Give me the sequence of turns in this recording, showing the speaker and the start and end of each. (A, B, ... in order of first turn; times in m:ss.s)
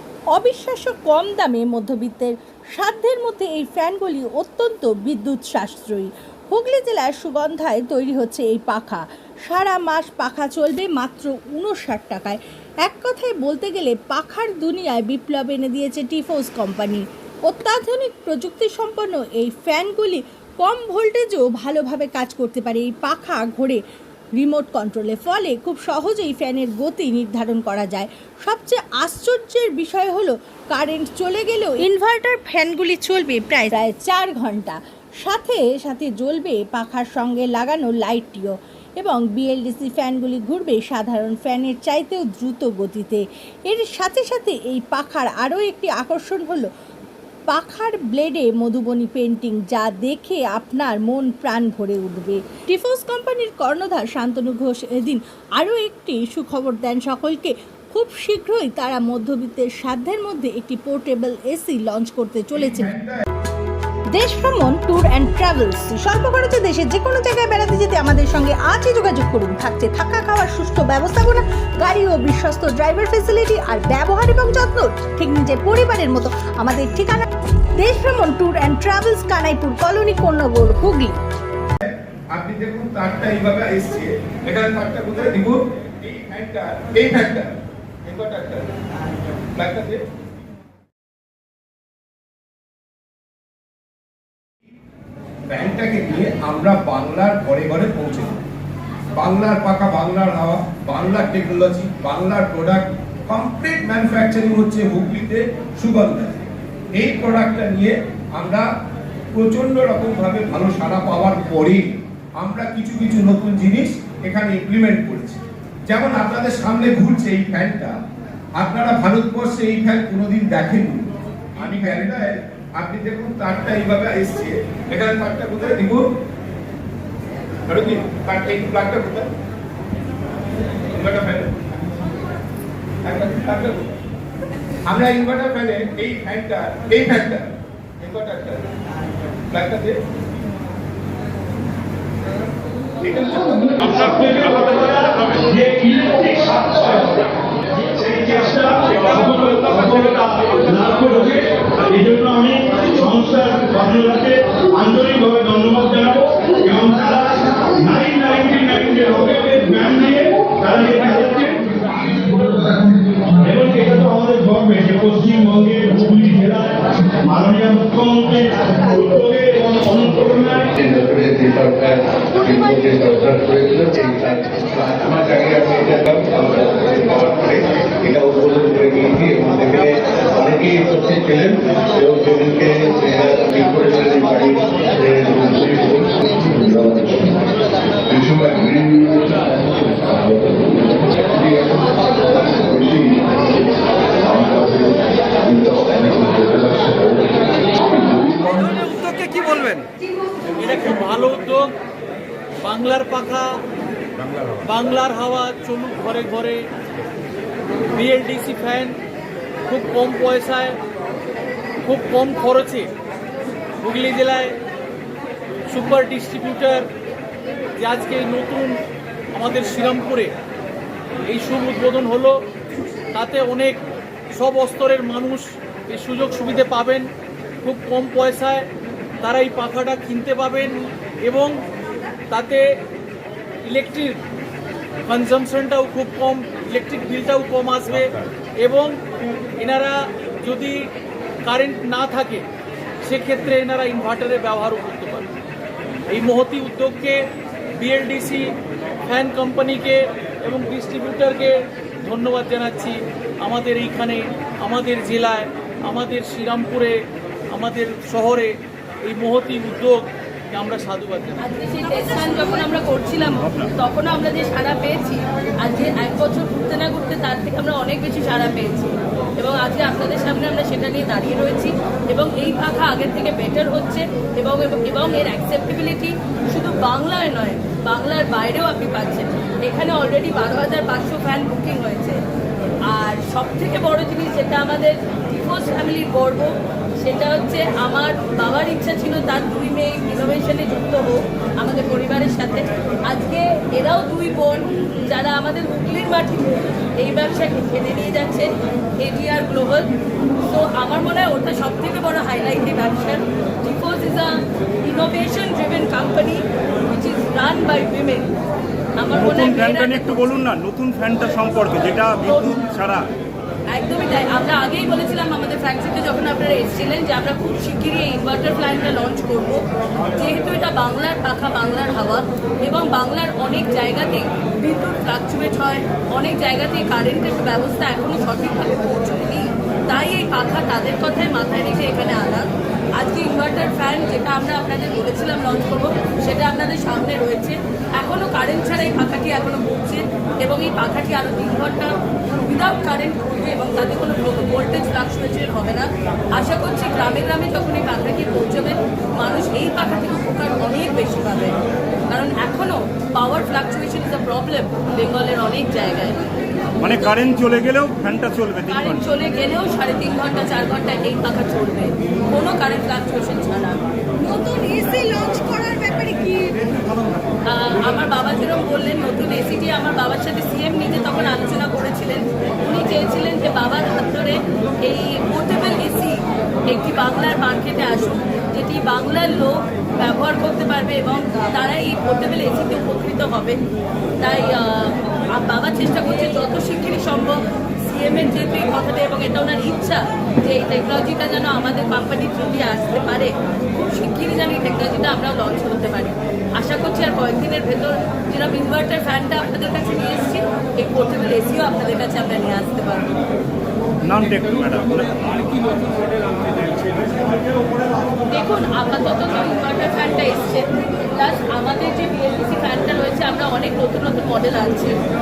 0:00.3-0:23.8 A
0:24.4-0:46.7 A
0:47.5-1:02.9 A
1:02.6-1:03.2 B
1:04.2-1:17.3 A
1:17.8-1:21.2 A
1:21.8-1:27.5 B
1:28.0-1:28.7 B
1:29.6-1:30.0 B
1:35.5-1:38.4 B
1:39.2-1:46.4 B
1:46.9-1:48.7 B
1:49.3-1:58.0 B
1:58.6-2:06.0 B
2:07.7-2:09.3 B
2:11.0-2:11.5 B
2:13.0-2:13.9 B
2:14.9-2:17.5 B
2:18.0-2:18.7 B
2:19.5-2:20.0 B
2:23.1-2:23.8 B
2:23.8-2:27.2 C
2:27.9-2:50.7 C
2:50.8-3:07.4 D
3:08.1-3:13.6 D
3:14.2-3:18.9 D
3:19.2-3:19.8 E
3:20.6-3:21.7 E
3:22.6-3:23.5 E
3:24.6-3:26.6 E
3:27.9-3:29.0 E
3:29.7-3:30.8 E
3:31.8-3:32.9 E
3:33.8-3:34.6 E
3:35.7-3:36.9 E
3:37.8-3:38.8 E
3:39.3-3:40.3 E
3:41.3-3:42.4 E
3:43.1-3:43.8 E
3:44.3-3:47.1 E
3:47.6-3:48.7 E
3:49.2-3:51.6 E
3:52.3-3:52.7 E
3:53.7-3:54.2 E
3:55.1-3:59.0 E
3:59.6-4:00.8 E
4:01.4-4:02.4 E
4:03.0-4:05.3 E
4:06.1-4:07.2 E
4:07.8-4:08.5 E
4:09.1-4:17.0 E
4:17.5-4:18.5 E
4:19.1-4:21.4 E
4:21.4-4:42.2 F
4:23.4-4:23.7 G
4:42.9-5:08.3 F
5:09.0-5:10.4 F
5:09.1-5:13.1 G
5:12.2-5:12.6 F
5:13.7-5:32.5 F
5:33.0-5:51.6 F
5:52.1-5:56.2 F
5:56.8-5:59.0 G
5:58.7-6:03.8 F
6:04.2-6:06.8 A
6:07.5-6:16.2 F
6:16.7-6:23.6 F
6:24.2-6:43.2 F
6:44.0-6:45.7 G
6:46.3-6:47.8 G
6:48.3-6:55.0 F